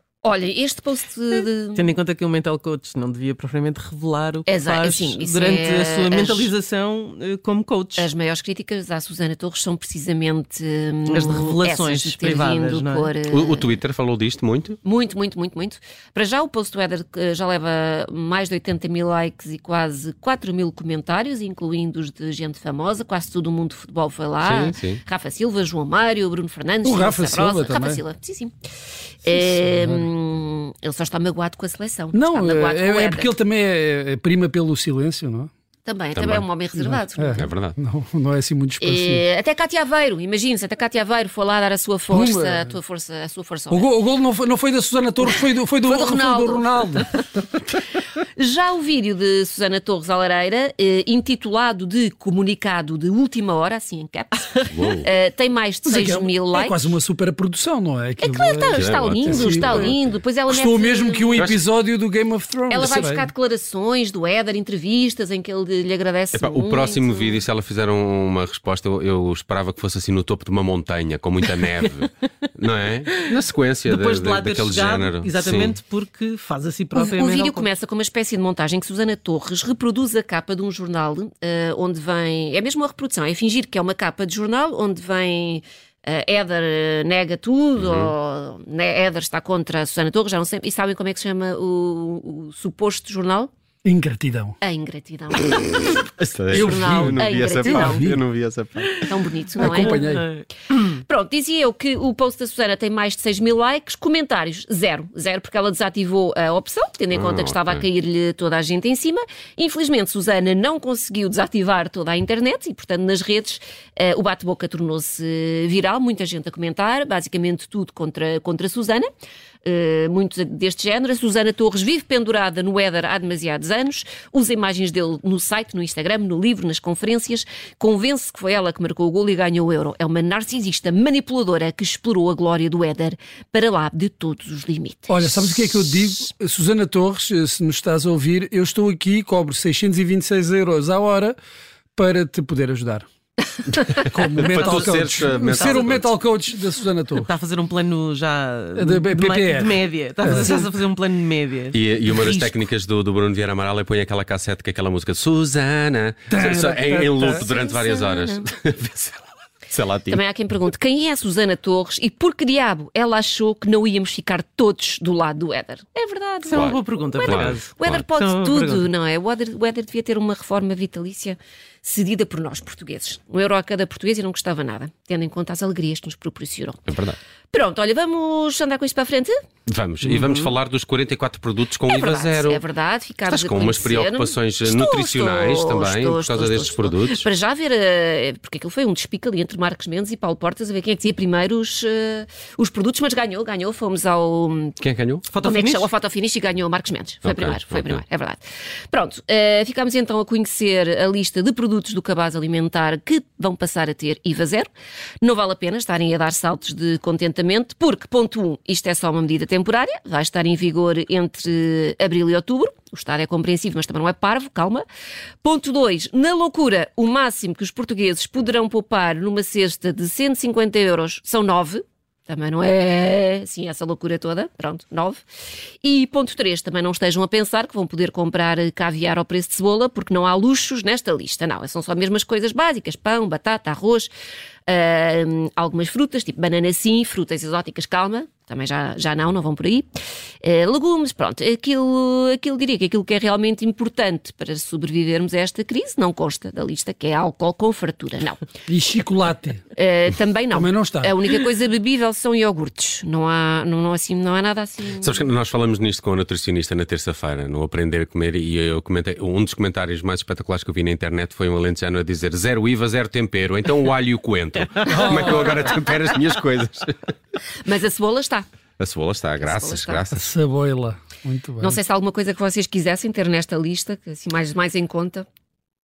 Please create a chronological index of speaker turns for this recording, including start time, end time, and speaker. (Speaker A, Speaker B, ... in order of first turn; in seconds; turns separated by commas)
Speaker A: 0.2-1.9, Speaker B: 1.7-8.1, Speaker A: 4.5-6.5, Speaker A: 8.0-13.8, Speaker B: 11.1-13.1, Speaker C: 13.3-14.8, Speaker A: 14.8-28.5, Speaker C: 24.4-25.0, Speaker D: 26.8-28.0, Speaker A: 29.2-33.4, Speaker D: 29.3-30.1, Speaker D: 32.1-35.5, Speaker A: 35.9-37.5, Speaker C: 36.1-36.5, Speaker D: 36.7-39.2, Speaker C: 37.4-37.8, Speaker A: 38.8-43.9, Speaker D: 42.1-42.7, Speaker D: 43.7-47.1, Speaker A: 45.2-47.2, Speaker A: 48.4-56.9, Speaker C: 54.7-55.1, Speaker D: 55.9-59.9, Speaker A: 58.2-61.5, Speaker C: 58.7-60.2, Speaker D: 60.5-63.3, Speaker A: 62.7-67.4, Speaker C: 66.3-75.8, Speaker B: 71.6-71.9, Speaker B: 73.8-77.7, Speaker A: 77.0-93.5, Speaker C: 87.8-88.1, Speaker D: 93.8-94.6, Speaker A: 94.6-96.0, Speaker C: 96.2-99.0, Speaker D: 96.5-98.2, Speaker A: 96.5-98.1, Speaker A: 99.0-100.0, Speaker B: 99.6-100.8, Speaker D: 99.6-100.3, Speaker A: 100.8-119.1, Speaker C: 107.1-107.8, Speaker A: 119.6-136.0, Speaker D: 135.1-141.4, Speaker D: 142.0-143.1, Speaker D: 143.9-147.3, Speaker B: 144.4-146.0, Speaker C: 144.4-146.1, Speaker B: 147.2-152.6, Speaker D: 148.8-150.7, Speaker C: 151.7-160.2, Speaker D: 156.3-157.5, Speaker A: 157.2-158.4, Speaker A: 160.1-176.8, Speaker B: 166.5-168.9, Speaker C: 166.5-168.1, Speaker C: 176.9-177.2, Speaker A: 177.5-179.4, Speaker C: 179.7-182.6, Speaker A: 181.9-194.8, Speaker C: 183.3-187.3, Speaker C: 194.8-195.3, Speaker B: 195.3-195.9, Speaker A: 195.4-204.7, Speaker C: 197.2-198.0, Speaker A: 205.2-214.8, Speaker A: 215.4-225.2, Speaker A: 225.8-234.1, Speaker A: 234.7-239.9, Speaker A: 240.4-248.4, Speaker D: 248.7-249.6, Speaker A: 249.8-255.3, Speaker D: 250.5-251.2, Speaker C: 255.0-267.1, Speaker D: 264.9-265.7, Speaker A: 267.6-268.5, Speaker C: 268.8-270.3, Speaker A: 269.4-270.0, Speaker D: 270.1-271.8, Speaker A: 271.6-275.3